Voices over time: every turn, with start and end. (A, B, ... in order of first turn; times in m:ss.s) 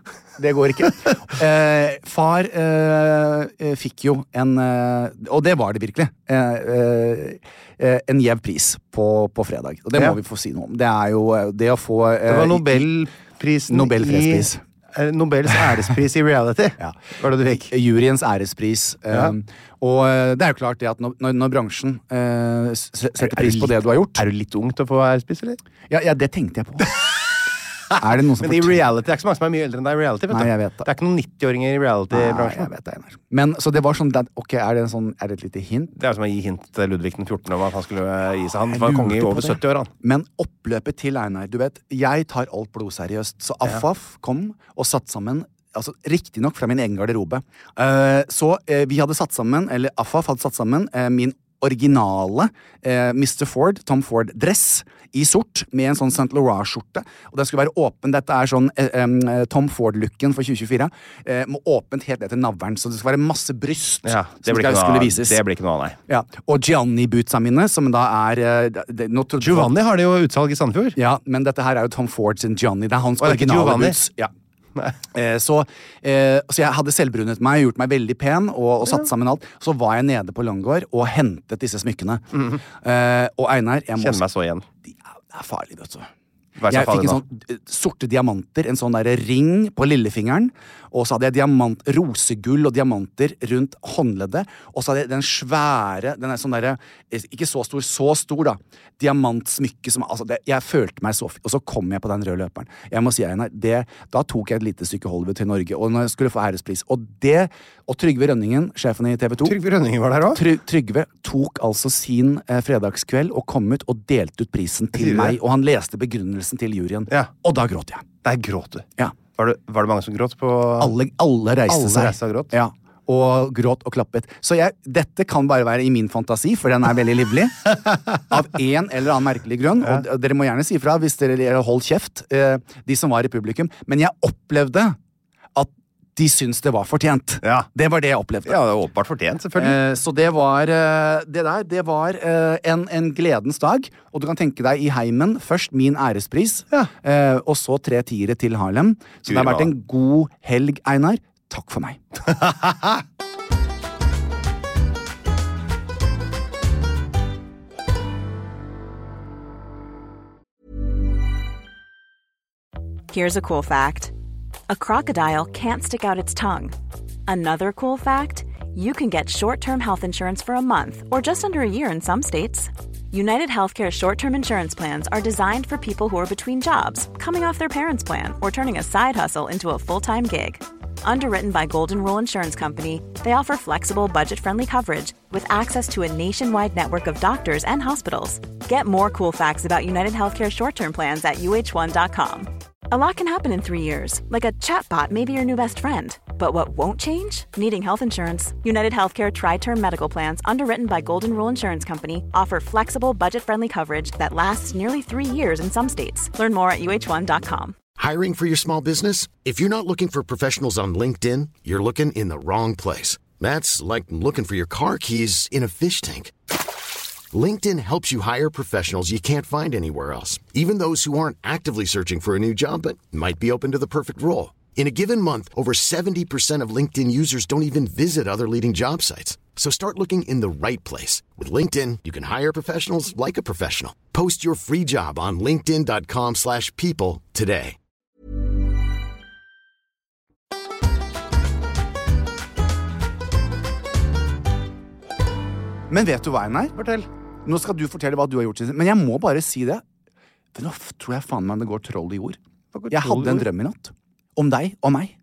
0:00.4-0:12.9 A
0:12.3-0:17.7 B
0:13.7-0:14.6 A
0:16.8-0:24.3 A
0:23.2-0:25.6 B
0:25.9-0:27.0 A
0:27.9-0:32.7 B
0:28.0-0:28.8 A
0:30.3-0:30.9 A
0:32.1-0:35.9 A
0:36.0-0:39.9 B
0:38.7-1:05.4 A
1:04.0-1:06.0 B
1:06.1-1:09.7 A
1:09.4-1:11.0 B
1:11.0-1:14.3 A
1:13.2-1:14.0 B
1:15.1-1:24.2 A
1:18.8-1:19.1 B
1:22.3-1:22.6 B
1:24.0-1:24.7 B
1:24.8-1:26.1 A
1:26.6-1:27.2 B
1:26.7-1:49.6 A
1:49.4-1:50.4 B
1:50.3-1:58.1 A
1:55.0-1:55.4 B
1:58.2-2:01.0 B
2:00.8-2:15.0 A
2:01.7-2:02.5 B
2:15.6-2:18.6 A
2:18.5-2:19.8 B
2:19.6-2:32.0 A
2:29.3-2:29.7 B
2:32.3-2:32.9 B
2:43.1-2:44.1 C
2:44.7-2:46.7 C
2:47.3-3:27.8 C
3:28.0-3:36.3 D
3:37.3-3:57.8 D
4:05.9-4:06.8 A
4:06.8-4:07.1 B
4:07.4-4:09.8 A
4:10.6-4:12.4 A
4:12.7-4:13.5 B
4:12.9-4:15.1 A